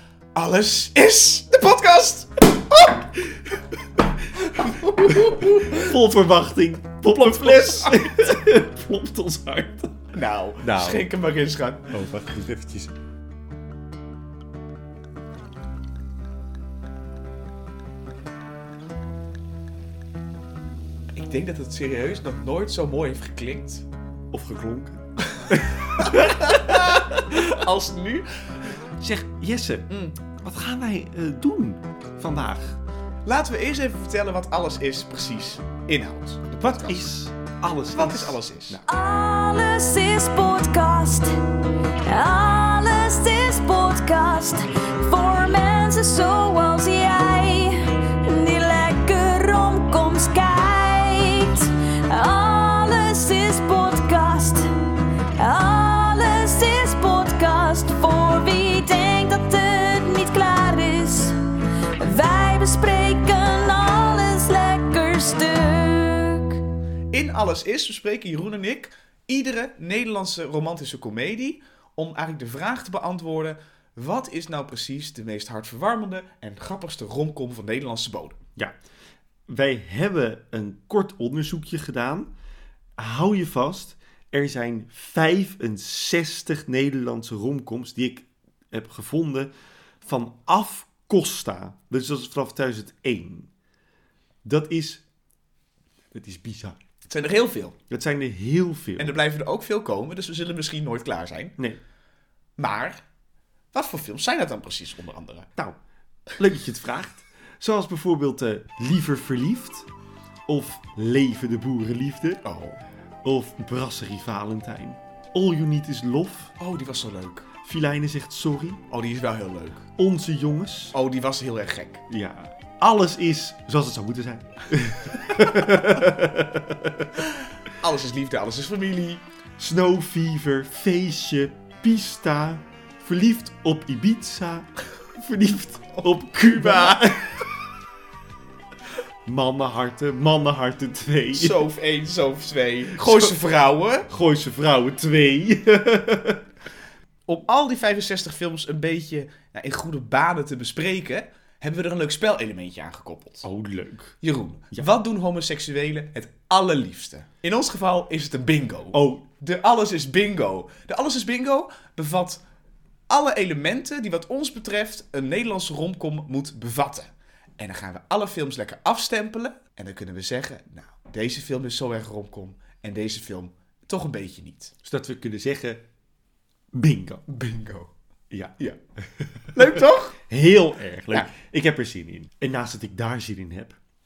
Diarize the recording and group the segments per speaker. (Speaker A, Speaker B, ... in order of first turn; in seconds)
Speaker A: 0.3-3.1, 4.3-6.0, 7.5-8.1, 10.1-11.9, 21.1-23.9, 25.8-28.3, 29.9-30.1, 33.2-37.1, 37.9-38.8, 67.1-78.4, 97.1-97.8, 99.0-101.5, 102.6-103.0, 103.7-105.5, 112.4-112.8, 116.6-117.5, 118.9-119.8, 120.9-122.0, 127.8-129.2, 136.4-137.1, 141.3-144.1, 147.3-153.4, 154.2-162.4, 163.1-174.7, 177.3-177.9, 179.5-180.2
Speaker B: 5.3-10.1, 10.6-11.1, 11.9-12.9, 24.3-27.6, 29.0-32.8, 36.9-38.8, 79.5-82.3, 83.0-89.5, 90.0-93.5, 94.4-95.0, 96.1-96.8, 97.9-99.2, 106.3-109.9, 110.5-112.4, 113.2-116.6, 117.6-118.8, 120.0-120.9, 122.1-127.1, 129.6-137.4, 139.2-141.6, 144.1-146.4, 153.4-154.2, 158.9-159.2, 174.8-175.8, 176.7-177.2, 178.3-178.6, 179.2-179.5, 180.2-183.8
Speaker C: 38.8-66.6